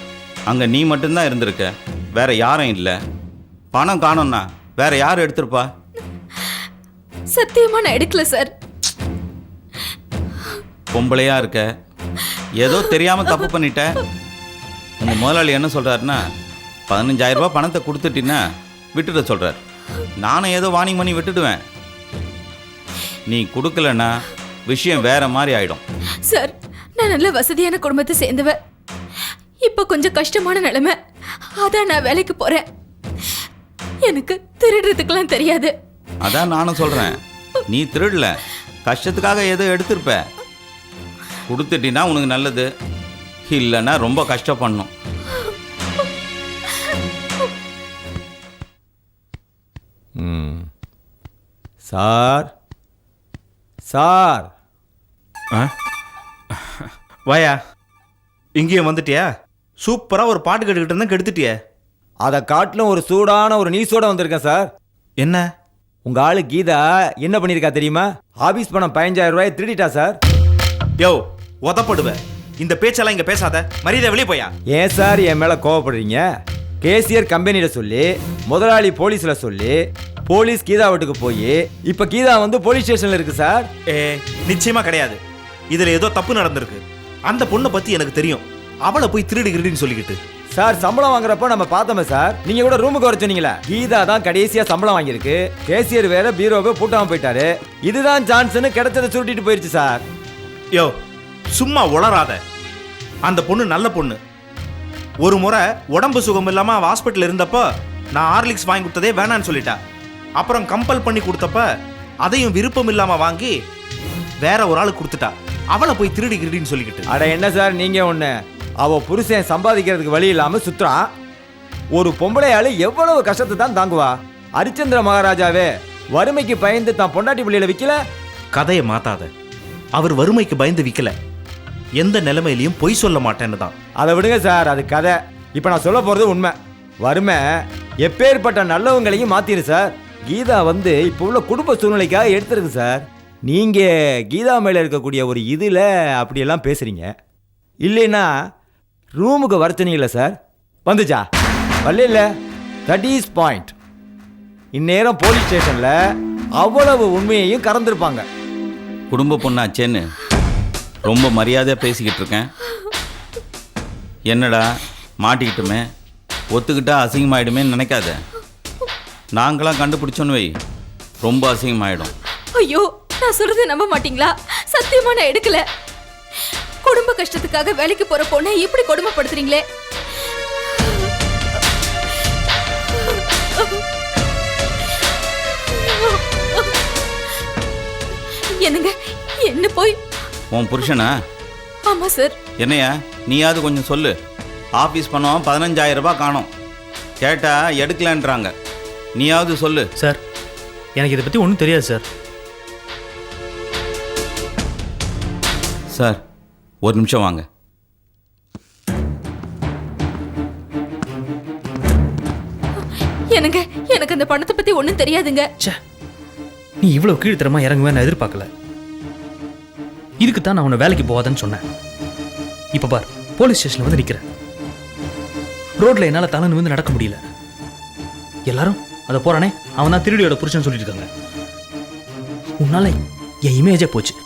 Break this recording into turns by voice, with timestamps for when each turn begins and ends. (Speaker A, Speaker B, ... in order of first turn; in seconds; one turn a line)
Speaker A: 0.5-3.0
Speaker A: 3.7-5.7
Speaker B: 7.3-8.5
Speaker A: 10.9-11.6
Speaker A: 12.6-13.8
Speaker A: 15.0-16.2
Speaker A: 16.9-18.4
Speaker A: 18.9-19.6
Speaker A: 20.2-21.6
Speaker A: 23.3-24.1
Speaker A: 24.7-25.8
Speaker B: 26.3-28.6
Speaker B: 29.6-30.9
Speaker B: 31.6-32.6
Speaker B: 34.1-35.7
Speaker A: 36.2-37.2
Speaker A: 37.7-38.3
Speaker A: 38.8-40.2
Speaker A: 41.5-42.7
Speaker A: 43.5-44.9
Speaker C: 50.2-50.6
Speaker C: 51.9-52.5
Speaker C: 53.9-54.5
Speaker D: 57.3-57.6
Speaker D: 58.6-59.3
Speaker D: 59.8-61.5
Speaker C: 62.2-64.7
Speaker D: 65.2-65.5
Speaker C: 66.0-70.2
Speaker D: 71.0-74.5
Speaker C: 74.7-76.2
Speaker C: 76.8-79.7
Speaker C: 80.3-83.7
Speaker D: 83.9-85.2
Speaker D: 85.7-90.2
Speaker C: 90.5-100.0
Speaker D: 101.5-102.4
Speaker D: 103.2-104.2
Speaker D: 105.2-109.8
Speaker D: 110.4-111.7
Speaker D: 112.2-113.5
Speaker D: 114.4-117.0
Speaker C: 117.1-118.3
Speaker C: 118.8-121.0
Speaker C: 121.9-128.0
Speaker D: 128.5-129.3
Speaker D: 129.9-131.1
Speaker D: 132.0-133.7
Speaker C: 134.0-137.4
Speaker C: 138.0-147.1
Speaker C: 147.8-148.3
Speaker C: 149.2-151.2
Speaker C: 151.8-152.3
Speaker C: 152.9-153.7
Speaker C: 154.7-155.9
Speaker C: 156.6-158.2
Speaker A: 159.1-160.1
Speaker A: 161.0-162.5
Speaker A: 164.3-164.6
Speaker A: 165.2-165.8
Speaker A: 166.5-168.2
Speaker A: 169.4-170.5
Speaker A: 171.2-172.1
Speaker B: 172.6-175.6
Speaker B: 176.8-179.6
Speaker B: 180.8-181.1
Speaker B: 183.0-183.8
Speaker B: 185.7-186.7
Speaker B: 188.6-190.0
Speaker A: 190.5-191.1
Speaker B: 191.9-192.3
Speaker A: 192.6-194.1
Speaker A: 194.8-196.5
Speaker A: 197.2-198.5
Speaker A: 199.2-199.9
Speaker E: 201.0-202.0
Speaker A: 205.9-206.2
Speaker A: 206.8-207.4
Speaker B: 213.3-215.4
Speaker E: 216.8-218.4
Speaker E: 220.2-221.6
Speaker E: 222.8-224.2
Speaker E: 225.8-227.1
Speaker E: 228.5-231.0
Speaker E: 232.6-232.9
Speaker E: 233.5-234.1